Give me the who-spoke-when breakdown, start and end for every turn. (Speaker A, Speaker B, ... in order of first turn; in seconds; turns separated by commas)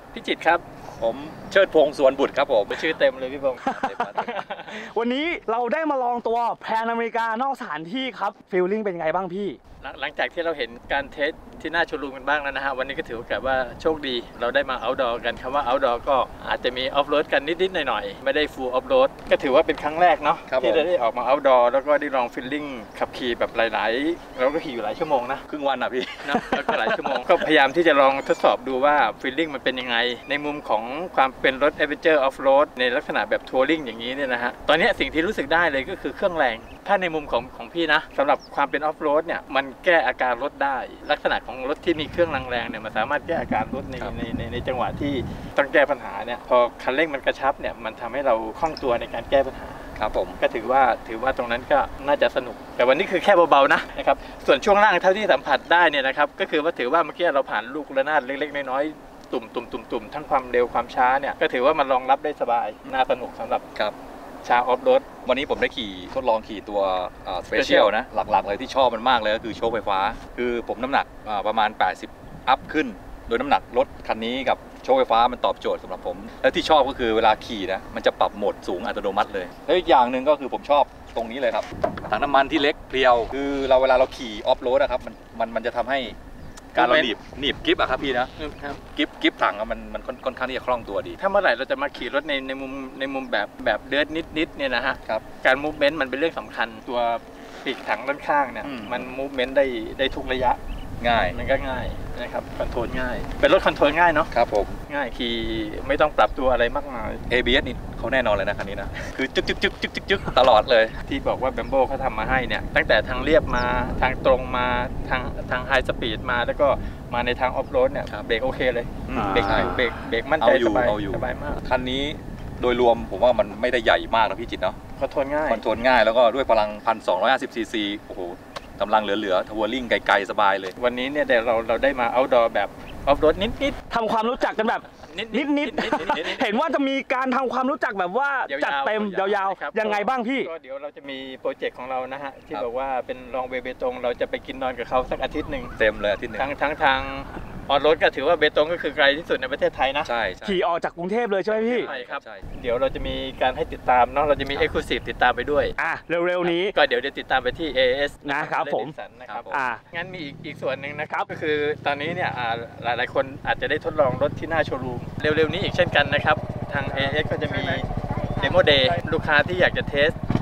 Speaker A: 0.1-0.6, Speaker B: 1.0-2.9, Speaker A: 2.7-4.8, Speaker C: 3.6-4.0, Speaker B: 3.7-4.4, Speaker C: 4.7-9.6, Speaker A: 9.8-25.4, Speaker B: 20.5-20.9, Speaker B: 25.5-26.7, Speaker A: 26.2-49.9, Speaker B: 50.0-50.4, Speaker A: 50.4-63.6, Speaker A: 64.4-65.1, Speaker B: 65.2-86.2, Speaker A: 67.5-67.9, Speaker B: 86.8-88.3, Speaker A: 86.8-87.1, Speaker A: 88.4-88.8, Speaker B: 88.9-91.2, Speaker A: 91.2-100.6, Speaker B: 98.6-99.1, Speaker B: 101.0-101.4, Speaker A: 101.3-104.3, Speaker B: 104.3-104.8, Speaker A: 104.9-107.2, Speaker B: 107.3-111.0, Speaker A: 111.0-121.6, Speaker B: 119.1-119.8, Speaker C: 119.2-119.8, Speaker B: 120.4-124.8, Speaker A: 125.0-125.6, Speaker B: 125.5-130.8, Speaker A: 130.8-133.8, Speaker C: 133.9-140.5, Speaker A: 134.9-136.5, Speaker A: 138.5-145.8, Speaker B: 145.8-146.5, Speaker A: 146.3-150.1, Speaker B: 150.1-150.6, Speaker C: 150.4-151.9, Speaker B: 151.5-152.4, Speaker A: 151.7-155.8, Speaker C: 155.8-156.7, Speaker A: 156.4-170.2, Speaker C: 158.2-158.9, Speaker B: 159.3-159.6, Speaker C: 159.5-159.8, Speaker C: 166.9-167.8